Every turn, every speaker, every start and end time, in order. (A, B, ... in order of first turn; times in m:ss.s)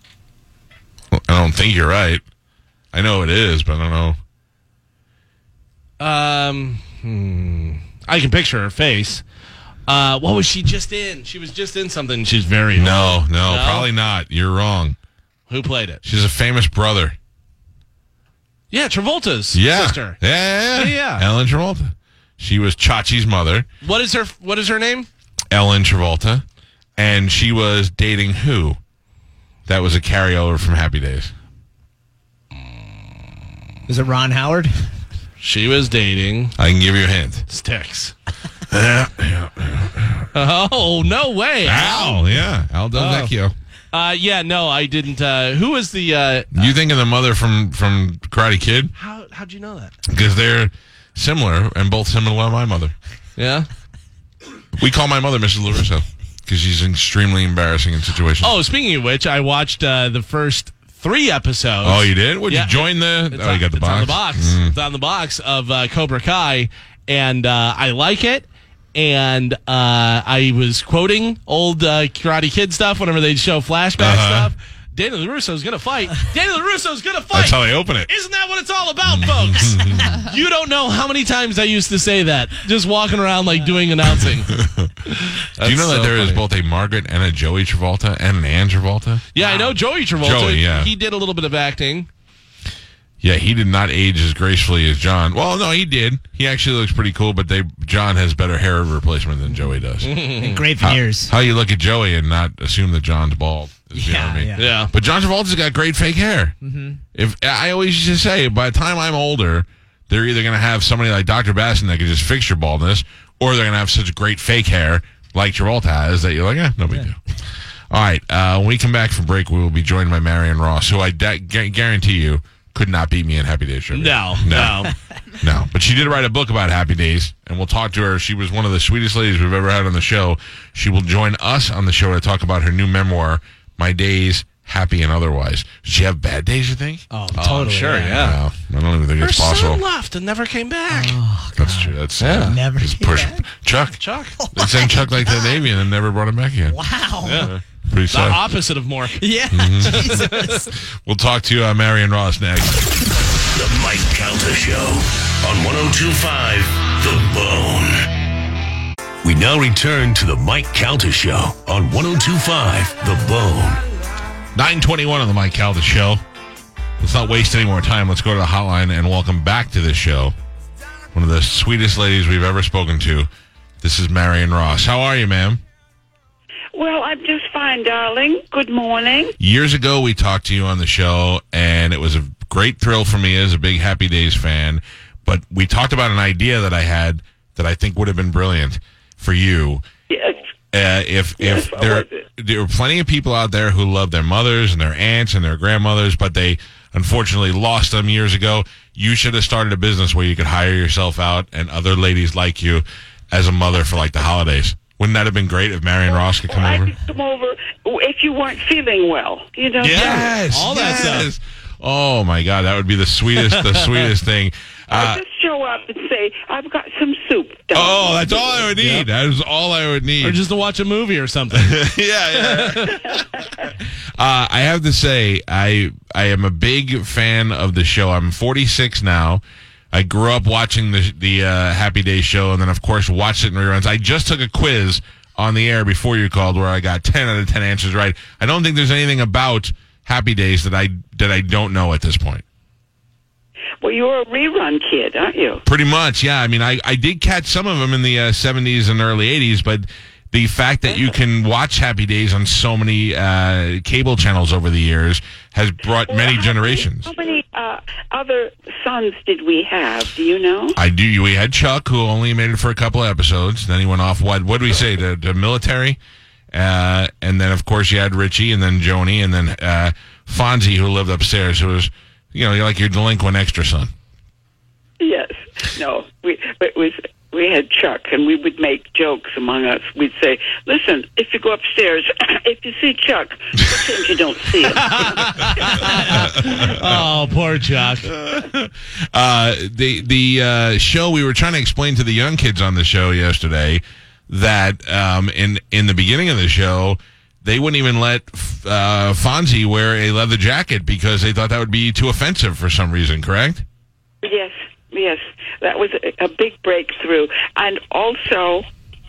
0:01.1-0:02.2 A
0:02.9-0:04.2 A
0:06.0-0:09.2 B
0:09.9-0:13.9 B
0:12.8-0:15.0 A
0:15.5-0:16.0 B
0:16.0-0:17.2 A
0:18.7-0:20.2 B
0:19.5-0:23.7 A
0:20.7-0:21.2 B
0:23.8-0:25.1 B
0:25.5-0:26.4 A
0:27.0-0:28.8 A
0:29.7-0:31.3 A
0:33.9-0:34.8 C
0:35.4-0:36.6 B
0:36.6-0:37.4 A
0:37.5-0:38.1 B
0:38.7-0:40.3 A
0:40.3-0:42.4 B
0:41.6-0:43.5 A
0:42.9-0:43.3 B
0:43.9-0:46.8 B
0:46.5-0:48.9 A
0:49.0-0:49.9 B
0:50.1-0:52.9 A
0:53.4-0:53.7 B
0:54.8-0:58.5 A
0:58.4-1:24.6 B
1:01.8-1:04.8 A
1:14.0-1:14.5 A
1:17.3-1:18.1 A
1:19.0-1:20.1 A
1:24.5-1:29.3 A
1:25.1-1:26.4 B
1:29.3-1:32.1 B
1:30.2-1:30.9 A
1:33.2-1:40.1 A
1:40.0-1:40.7 B
1:40.2-1:41.3 C
1:40.8-1:46.5 A
1:43.9-1:44.8 C
1:44.6-1:44.9 B
1:46.6-1:47.0 C
1:47.1-1:57.2 A
1:57.9-2:17.0 A
2:03.9-2:04.9 B
2:17.1-2:18.4 C
2:17.3-2:18.4 B
2:18.1-2:19.8 A
2:19.2-2:21.2 B
2:20.9-2:23.4 C
2:21.6-2:24.0 A
2:22.2-2:22.6 B
2:24.0-2:24.4 B
2:24.4-2:25.6 C
2:24.5-2:26.8 A
2:26.7-2:27.5 C
2:27.2-2:27.5 B
2:27.4-2:28.4 A
2:28.1-2:30.7 B
2:29.2-2:30.7 C
2:29.5-2:30.3 A
2:30.8-2:32.8 A
2:33.5-2:38.0 D
2:39.2-2:43.8 D
2:44.5-2:46.2 A
2:47.0-2:50.3 A
2:51.1-2:53.3 A
2:53.8-2:55.6 A
2:56.7-2:59.3 E
2:59.4-3:09.8 A
3:10.1-3:10.4 E
3:10.7-3:26.9 A
3:11.4-3:12.2 E
3:26.4-3:30.3 E
3:29.8-3:31.3 B
3:29.8-3:35.2 A
3:33.4-3:34.1 B
3:34.9-3:38.7 E
3:37.7-3:40.4 A
3:38.8-3:39.0 B
3:40.2-3:43.0 B
3:41.5-3:43.2 A
3:44.2-4:02.4 A
4:03.8-4:05.6 E
4:05.6-4:17.1 A
4:16.1-4:20.8 E
4:20.8-4:26.0 A
4:26.5-4:33.9 A
4:35.0-4:46.0 E
4:44.7-4:48.1 B
4:46.0-4:47.0 A
4:48.0-5:03.6 A
5:04.2-5:08.6 E